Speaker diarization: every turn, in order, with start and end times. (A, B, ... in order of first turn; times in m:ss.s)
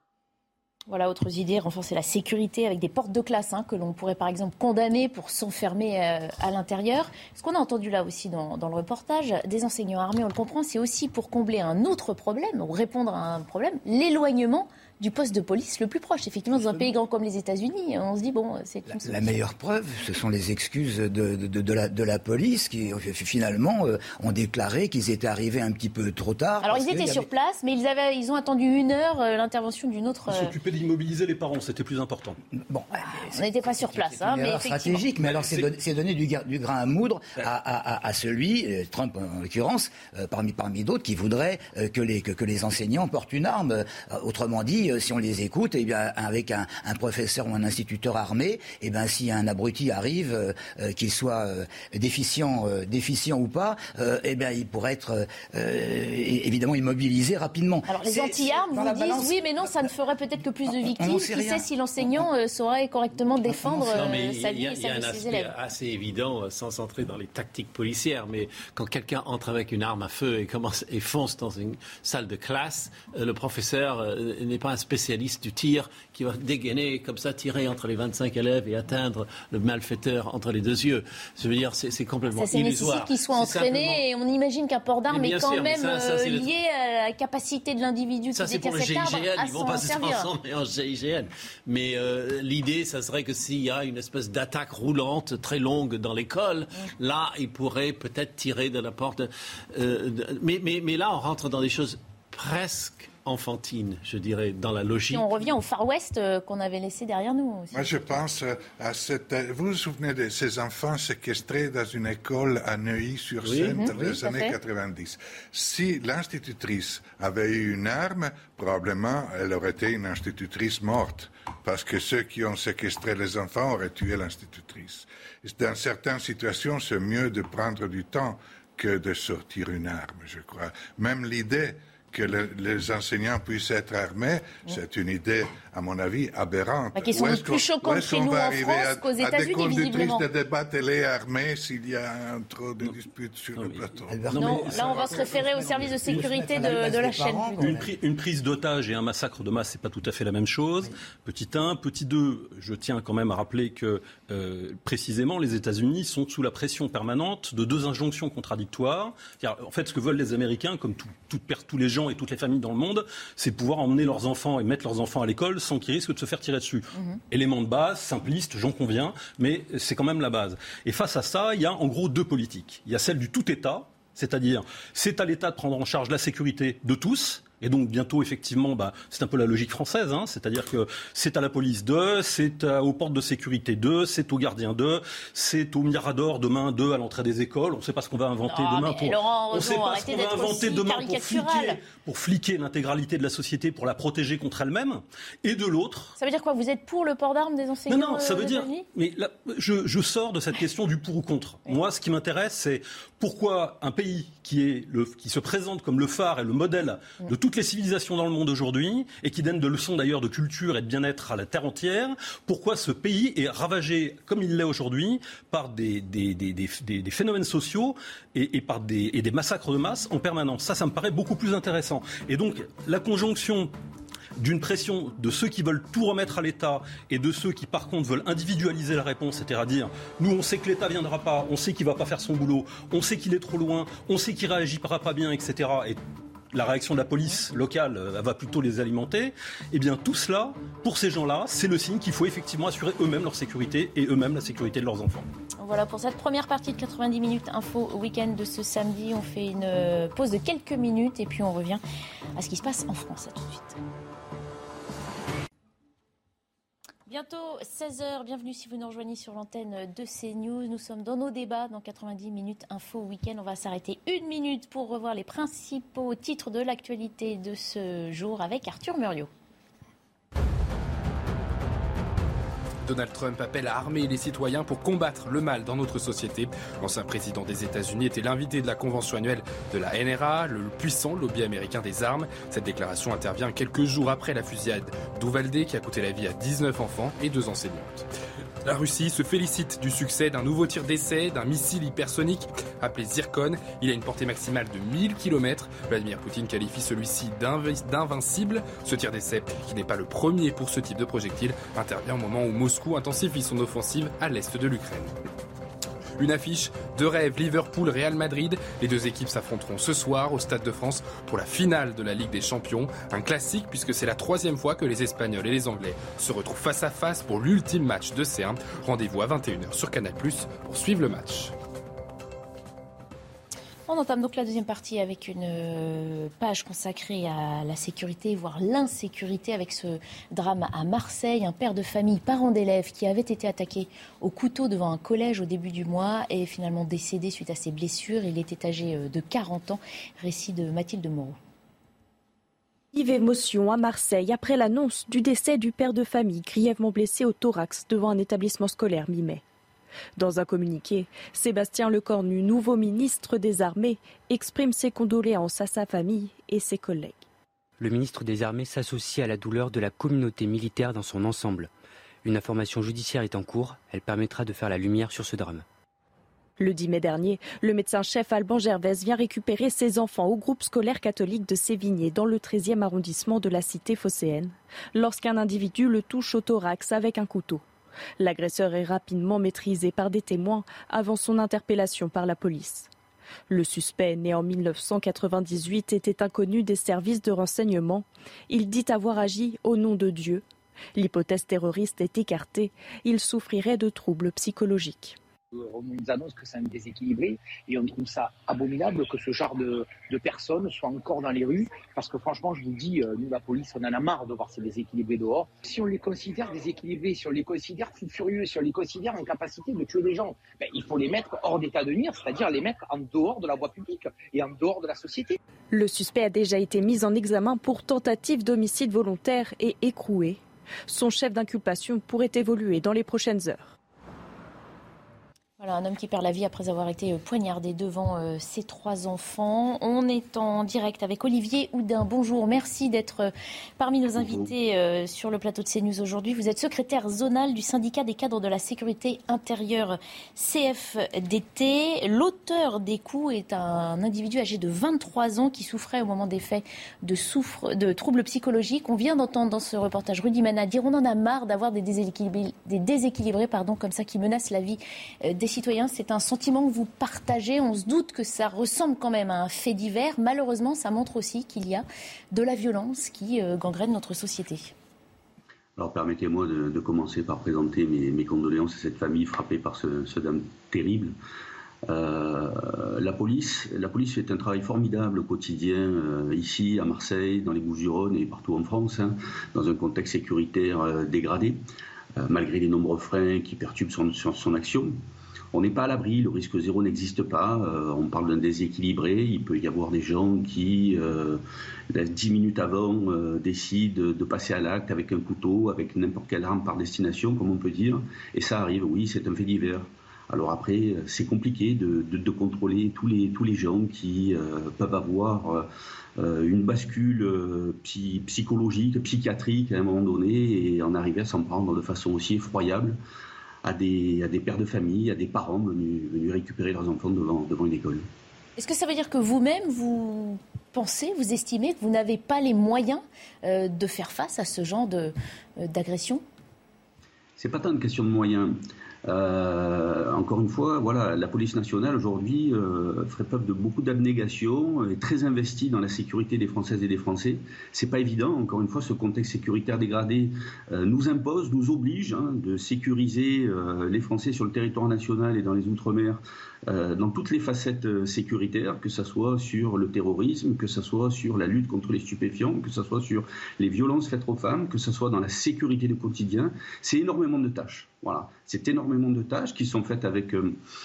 0:00.9-0:19.3 A
0:16.6-0:16.9 B
0:18.9-0:27.3 B
0:26.6-0:30.5 A
0:30.3-0:32.4 C
0:32.5-0:59.9 B
0:33.3-0:35.1 A
0:57.9-1:05.5 A
1:00.7-1:02.3 B
1:03.5-1:24.0 D
1:22.4-1:30.3 A
1:25.1-1:26.5 D
1:28.3-1:45.5 D
1:45.1-1:48.1 A
1:47.7-2:24.2 E
1:53.4-1:54.0 D
1:53.7-1:54.6 A
2:17.0-2:20.2 A
2:23.6-2:26.2 C
2:24.1-2:27.9 B
2:24.4-2:27.7 A
2:27.6-3:16.2 C
3:08.5-3:11.8 A
3:16.2-3:18.8 A
3:17.9-3:43.7 C
3:44.4-3:56.0 C
3:56.5-4:05.3 C
4:05.6-4:11.8 A
4:12.4-4:13.8 A
4:17.1-4:29.3 A
4:32.8-4:48.1 F
4:48.6-5:05.1 F
5:06.2-5:21.5 F
5:23.9-5:41.4 A
5:42.9-5:49.4 G
5:50.2-5:57.2 G
5:57.8-6:01.7 H
6:02.2-6:05.6 H
6:06.6-6:17.6 G
6:18.2-6:22.9 G
6:23.5-6:30.4 G
6:31.0-6:35.2 G
6:35.5-6:55.4 I
6:55.7-7:03.7 G
7:05.6-7:44.7 A
7:14.2-7:14.5 J
7:45.8-7:51.1 J
7:51.9-8:01.6 J
8:02.2-8:05.0 J
8:05.5-8:25.7 J
8:26.2-8:33.0 J
8:33.6-8:38.1 J
8:38.6-8:46.2 A
8:47.4-8:48.6 J
8:49.1-9:20.6 J